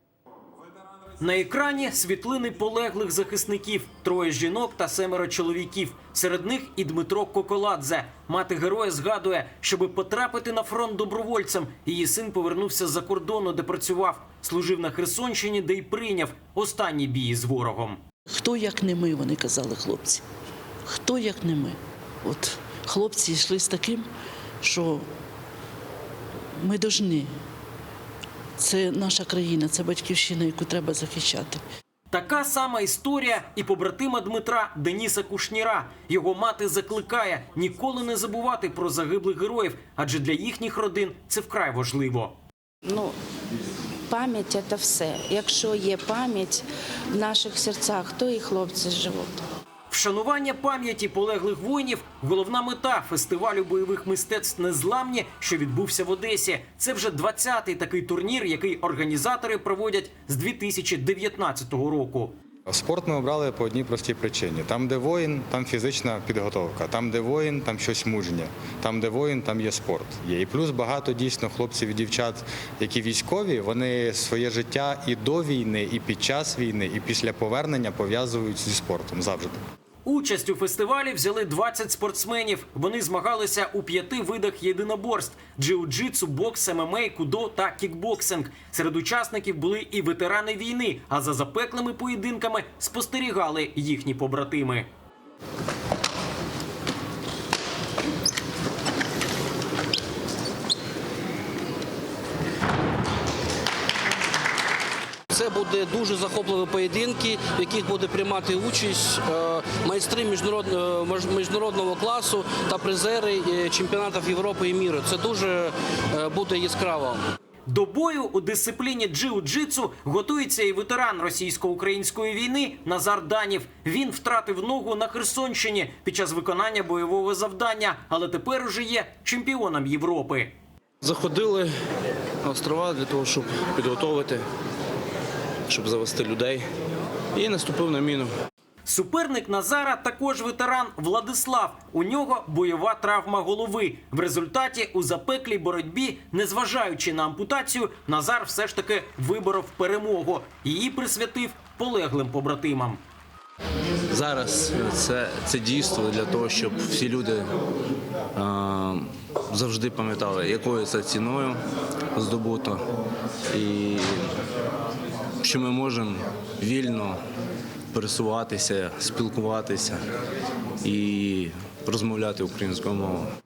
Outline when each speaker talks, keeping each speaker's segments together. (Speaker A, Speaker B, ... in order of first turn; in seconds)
Speaker A: 1.2-18.0, 32.1-42.4, 49.9-62.3, 80.0-94.9, 117.7-130.5, 138.9-153.0
Speaker B: 18.4-20.2, 21.0-21.7, 22.2-24.1, 24.6-25.0, 26.6-27.3, 28.6-31.6
Speaker C: 42.8-43.2, 44.1-49.4
Speaker D: 62.7-79.6
Speaker E: 105.3-117.2
Speaker F: 131.0-131.7, 132.4-134.4, 135.7-136.7, 137.3-138.3, 154.1-157.5, 158.3-161.6, 162.2-162.8, 163.5-164.3, 165.4-167.2, 167.9-170.0, 170.8-173.3